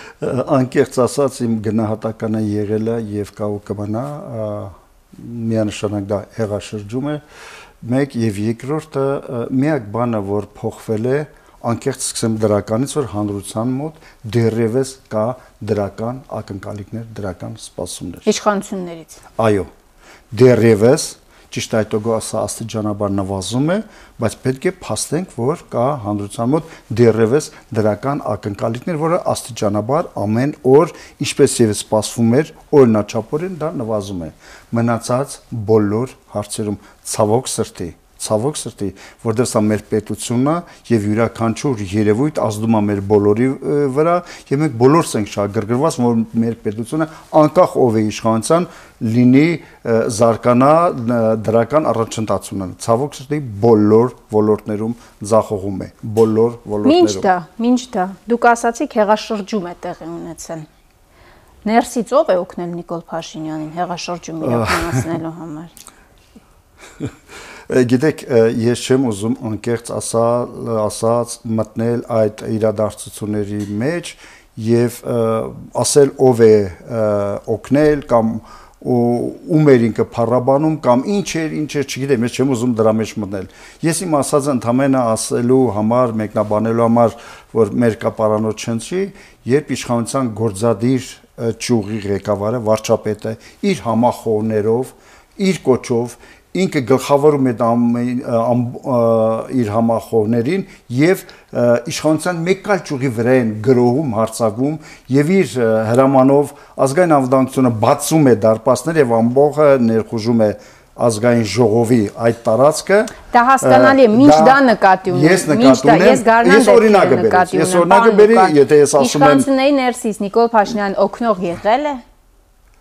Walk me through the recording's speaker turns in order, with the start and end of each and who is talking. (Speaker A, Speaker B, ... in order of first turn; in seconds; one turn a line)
Speaker A: 0.2-7.2
Speaker A: 7.8-18.3
Speaker B: 18.3-19.2
Speaker A: 19.4-19.7
Speaker A: 20.3-57.3
Speaker B: 56.8-60.7
Speaker B: 61.6-65.7
Speaker A: 64.4-65.1
Speaker A: 67.7-119.5
Speaker B: 113.3-122.0